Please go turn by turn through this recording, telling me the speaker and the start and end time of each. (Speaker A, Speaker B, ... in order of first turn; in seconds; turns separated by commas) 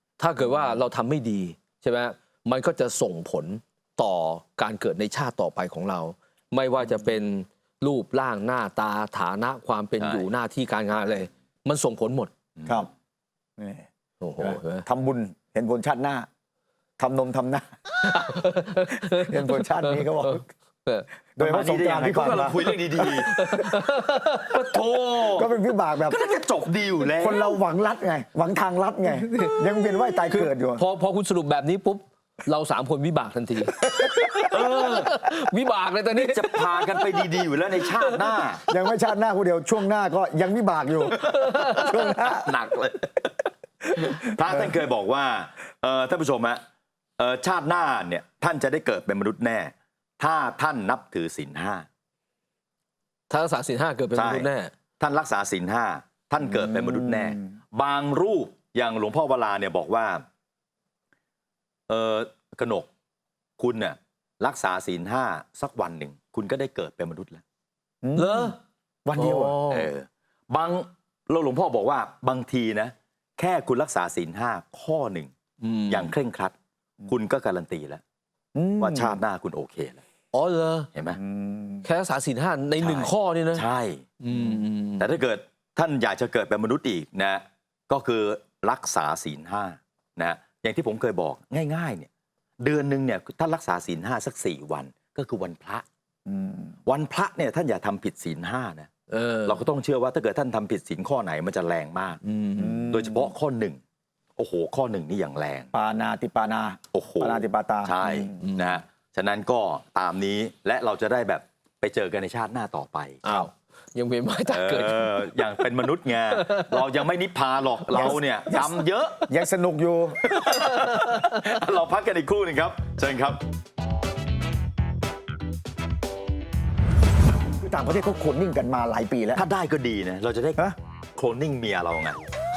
Speaker A: 0.2-12.3, Speaker B: 10.0-10.3, Speaker B: 12.6-12.9, Speaker C: 13.6-13.9, Speaker A: 14.2-14.8, Speaker C: 14.4-16.3, Speaker C: 17.0-17.6, Speaker A: 18.0-21.1, Speaker C: 19.1-20.4, Speaker C: 21.4-23.6, Speaker B: 21.4-23.3, Speaker A: 22.7-24.6, Speaker B: 24.4-25.5, Speaker C: 25.3-26.2, Speaker B: 26.1-27.5, Speaker C: 27.1-30.8, Speaker A: 29.1-37.3, Speaker C: 33.8-34.2, Speaker B: 34.5-35.1, Speaker B: 36.1-38.6, Speaker A: 37.8-38.2, Speaker C: 38.7-42.5, Speaker A: 41.1-42.1, Speaker B: 41.6-43.3, Speaker C: 44.0-44.7, Speaker B: 44.0-46.6, Speaker B: 47.2-51.9, Speaker A: 53.3-54.7, Speaker B: 54.1-60.2, Speaker C: 56.4-57.4, Speaker B: 61.9-62.9, Speaker B: 63.6-67.4, Speaker C: 68.0-69.6, Speaker A: 68.2-68.6, Speaker A: 69.2-69.9, Speaker B: 69.7-75.3, Speaker A: 75.6-76.1, Speaker B: 75.9-76.5, Speaker B: 77.1-78.0, Speaker C: 78.5-79.2, Speaker B: 78.8-80.0, Speaker A: 80.3-80.9, Speaker B: 80.9-81.2, Speaker C: 81.1-81.9, Speaker A: 81.8-83.7, Speaker B: 82.8-84.1, Speaker A: 84.2-85.1, Speaker B: 85.0-92.1, Speaker B: 92.6-95.8, Speaker C: 96.3-96.8, Speaker B: 96.9-98.9, Speaker A: 99.1-99.6, Speaker B: 99.5-102.2, Speaker A: 102.2-102.9, Speaker C: 102.6-103.3, Speaker B: 102.9-103.8, Speaker B: 104.4-105.7, Speaker C: 105.7-108.4, Speaker B: 106.9-113.2, Speaker A: 108.4-108.8, Speaker A: 113.2-115.7, Speaker B: 114.5-119.3, Speaker A: 116.3-116.9, Speaker C: 117.9-120.3, Speaker B: 120.3-123.4, Speaker C: 127.6-129.4, Speaker B: 129.4-132.2